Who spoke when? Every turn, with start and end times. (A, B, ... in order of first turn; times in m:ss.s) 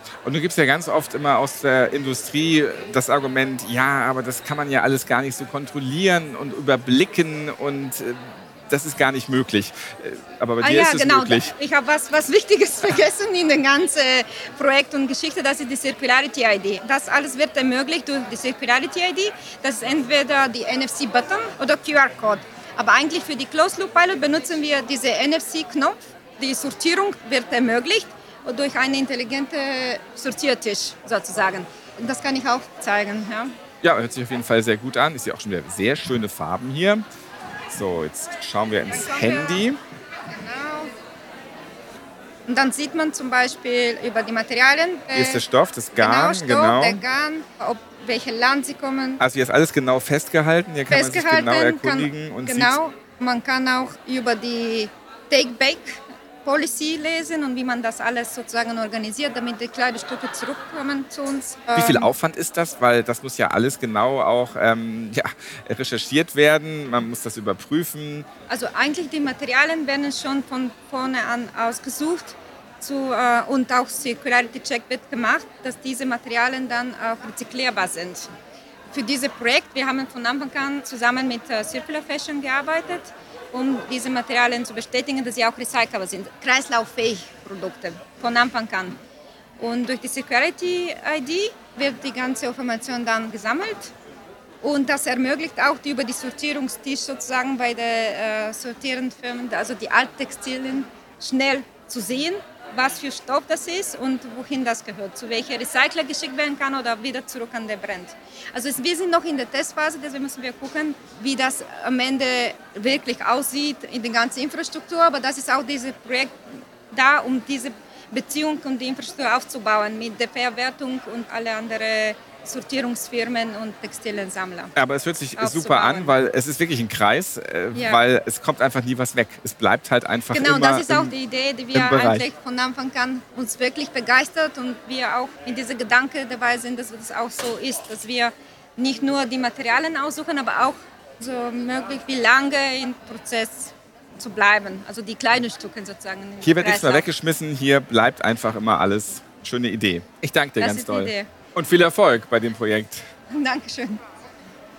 0:00.2-0:11.5 A
0:10.6-0:33.5 B
0:33.8-0:37.0 A
0:37.7-0:39.8 A
0:38.9-0:39.6 B
0:40.3-0:40.9 B
0:42.5-0:45.4 B
0:45.1-0:47.0 A
0:46.0-0:49.2 B
0:49.2-0:52.8 A
0:50.9-1:02.1 B
1:01.7-1:08.3 A
1:08.5-1:18.3 B
1:18.9-1:29.0 B
1:29.6-1:33.9 B
1:34.6-1:56.4 B
1:56.9-2:04.7 B
2:04.7-2:11.2 A
2:05.4-2:06.2 B
2:07.7-2:08.0 B
2:10.3-2:27.1 B
2:11.7-2:12.3 A
2:26.4-2:33.1 A
2:30.6-2:31.3 B
2:33.3-2:34.0 B